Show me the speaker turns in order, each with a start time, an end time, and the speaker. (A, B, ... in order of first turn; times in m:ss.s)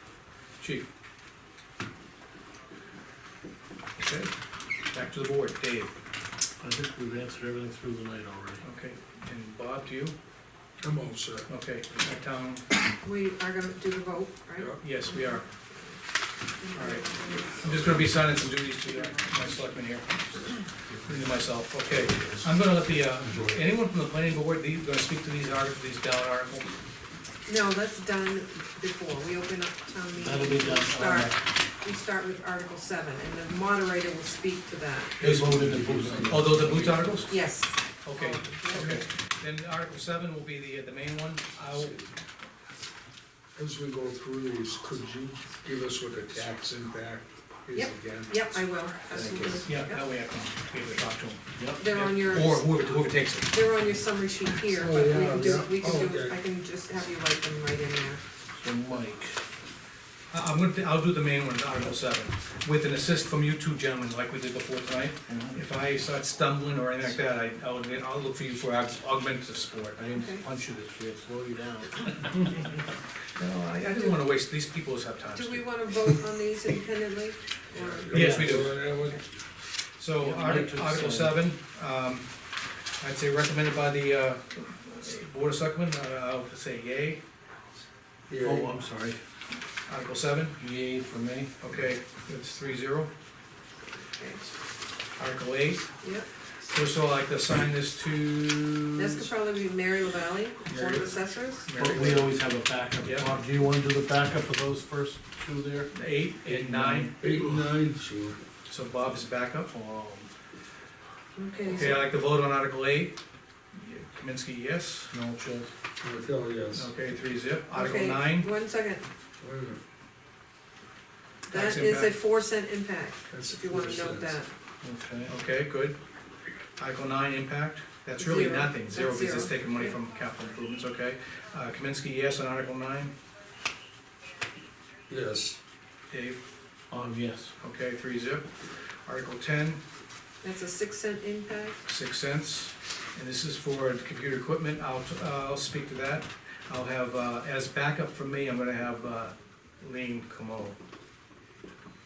0:00.6-0:00.9 A
0:04.0-0:04.3 A
0:04.9-0:05.9 A
0:06.6-0:08.6 B
0:08.6-0:10.2 A
0:10.8-0:11.5 C
0:11.5-0:12.6 A
0:13.0-0:16.0 D
0:14.6-0:15.0 C
0:14.8-0:15.4 A
0:16.6-0:17.7 D
0:16.7-0:17.1 A
0:17.6-0:26.7 A
0:27.5-0:35.2 D
0:30.2-0:31.4 B
0:35.2-0:37.4 A
0:35.2-0:37.4 B
0:37.3-0:39.0 D
0:38.0-0:42.1 A
0:38.7-0:39.0 B
0:43.6-0:48.6 C
0:47.7-0:50.0 D
0:49.1-0:49.7 B
0:49.7-0:53.6 A
0:51.6-0:51.9 B
0:51.8-0:52.7 D
0:53.5-0:58.2 D
0:54.7-0:56.4 C
0:58.5-0:59.4 B
1:00.3-1:10.0 A
1:05.3-1:05.6 B
1:10.0-1:12.6 B
1:10.1-1:10.4 D
1:13.4-1:15.7 A
1:15.3-1:18.1 D
1:17.7-1:19.2 C
1:18.1-1:18.6 B
1:18.1-1:18.8 A
1:20.0-1:22.3 A
1:20.2-1:21.4 B
1:23.0-1:27.2 A
1:28.3-1:28.7 C
1:28.4-1:29.2 B
1:29.9-1:30.6 A
1:30.6-1:31.5 B
1:31.6-1:33.1 A
1:34.2-1:34.4 D
1:35.2-1:35.9 A
1:36.0-1:36.3 D
1:36.7-1:39.3 A
1:39.0-1:41.8 D
1:40.6-1:41.1 C
1:41.7-1:42.2 A
1:41.7-1:45.9 B
1:41.8-1:42.3 C
1:43.0-1:43.3 A
1:45.9-1:47.1 A
1:46.4-1:47.6 B
1:47.2-1:48.4 C
1:48.7-1:49.7 A
1:49.7-1:50.3 B
1:51.4-1:52.0 D
1:51.7-1:53.2 A
1:53.7-1:55.1 A
1:55.1-1:55.7 B
1:56.0-1:56.9 C
1:56.7-1:58.5 A
1:57.7-1:59.1 D
1:59.4-1:59.8 C
2:01.5-2:04.5 D
2:01.5-2:02.2 A
2:03.3-2:04.4 C
2:04.8-2:05.3 B
2:05.3-2:06.0 A
2:06.8-2:13.1 A
2:08.2-2:10.0 D
2:15.1-2:15.6 C
2:16.1-2:16.4 A
2:16.9-2:17.5 B
2:17.6-2:18.5 A
2:19.0-2:19.8 A
2:20.4-2:21.8 D
2:21.8-2:30.8 A